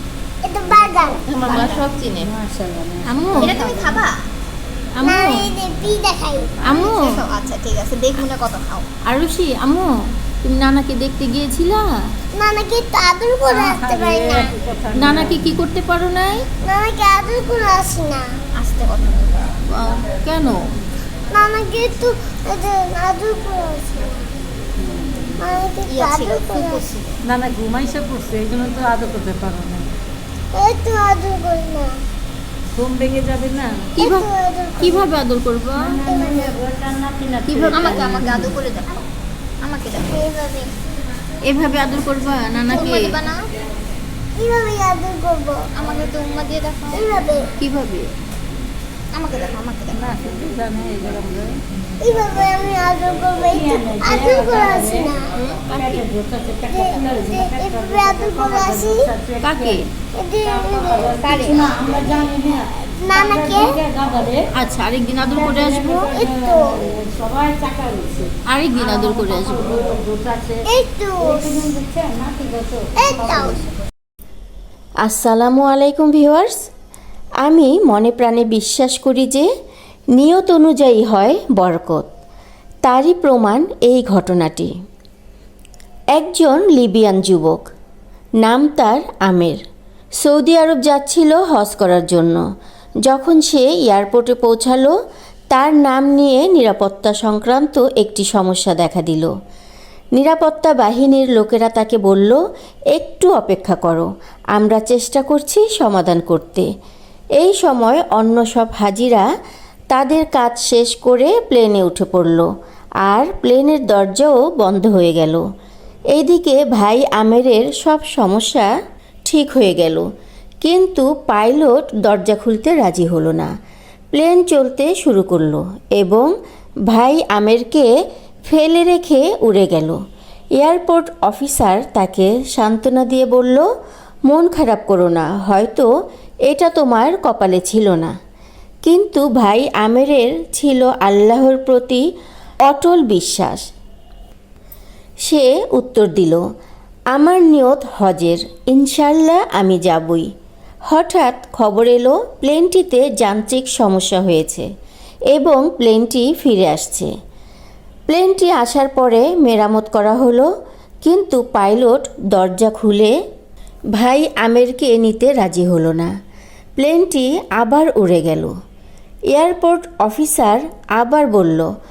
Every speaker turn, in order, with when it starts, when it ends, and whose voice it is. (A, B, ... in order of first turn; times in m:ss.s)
0:00.4-0:01.2 A
0:00.7-0:04.1 B
0:01.5-0:02.3 C
0:01.5-0:01.8 D
0:03.1-0:03.8 C
0:03.4-0:04.2 D
0:05.0-0:05.5 C
0:05.0-0:06.8 A
0:06.6-0:07.3 C
0:06.7-0:08.9 D
0:09.0-0:09.9 C
0:10.4-0:11.9 C
0:12.4-0:14.5 A
0:13.6-0:15.5 B
0:15.0-0:16.5 C
0:16.6-0:18.3 A
0:18.6-0:19.6 D
0:19.6-0:20.6 C
0:21.3-0:24.0 A
0:24.8-0:25.4 B
0:25.4-0:26.8 A
0:25.9-0:27.1 D
0:27.3-0:29.9 B
0:30.5-0:31.9 A
0:32.8-0:33.7 B
0:34.0-0:36.0 C
0:34.0-0:35.1 A
0:35.8-0:38.3 B
0:36.1-0:36.6 A
0:37.5-0:38.6 C
0:37.7-0:39.0 D
0:39.6-0:40.3 D
0:40.1-0:40.7 A
0:41.5-0:43.2 C
0:42.7-0:43.5 D
0:42.7-0:43.1 A
0:44.4-0:45.6 A
0:45.8-0:47.1 D
0:46.9-0:47.5 A
0:47.6-0:48.1 C
0:49.1-0:50.1 D
0:49.9-0:51.5 B
0:52.0-0:55.3 A
0:53.4-0:55.1 B
0:55.3-0:56.0 C
0:55.7-0:59.9 B
0:56.7-0:59.1 A
0:59.4-0:59.9 C
1:00.2-1:02.3 A
1:00.4-1:04.4 B
1:03.0-1:03.8 A
1:04.6-1:06.1 C
1:05.2-1:10.6 B
1:05.9-1:06.8 A
1:08.5-1:09.8 C
1:10.7-1:11.6 A
1:11.2-1:13.7 B
1:13.0-1:13.6 A
1:15.0-1:16.6 E
1:17.4-1:19.5 E
1:20.2-1:22.1 E
1:22.8-1:24.7 E
1:26.1-1:27.6 E
1:28.4-1:29.6 E
1:30.2-1:32.4 E
1:33.0-1:34.9 E
1:35.5-1:39.3 E
1:40.2-1:42.4 E
1:42.9-1:46.7 E
1:47.4-1:49.2 E
1:49.9-1:52.5 E
1:53.0-1:55.4 E
1:56.1-1:58.7 E
1:59.3-2:00.1 E
2:00.6-2:03.5 E
2:04.1-2:06.3 E
2:06.9-2:07.9 E
2:08.5-2:10.0 E
2:10.6-2:13.7 E
2:14.3-2:15.9 E
2:16.5-2:18.1 E
2:18.8-2:22.0 E
2:22.7-2:23.6 E
2:25.3-2:26.4 E
2:27.2-2:30.3 E
2:30.9-2:34.7 E
2:35.3-2:37.1 E
2:38.1-2:40.5 E
2:41.0-2:43.1 E
2:44.0-2:46.1 E
2:46.8-2:48.5 E
2:49.3-2:51.7 E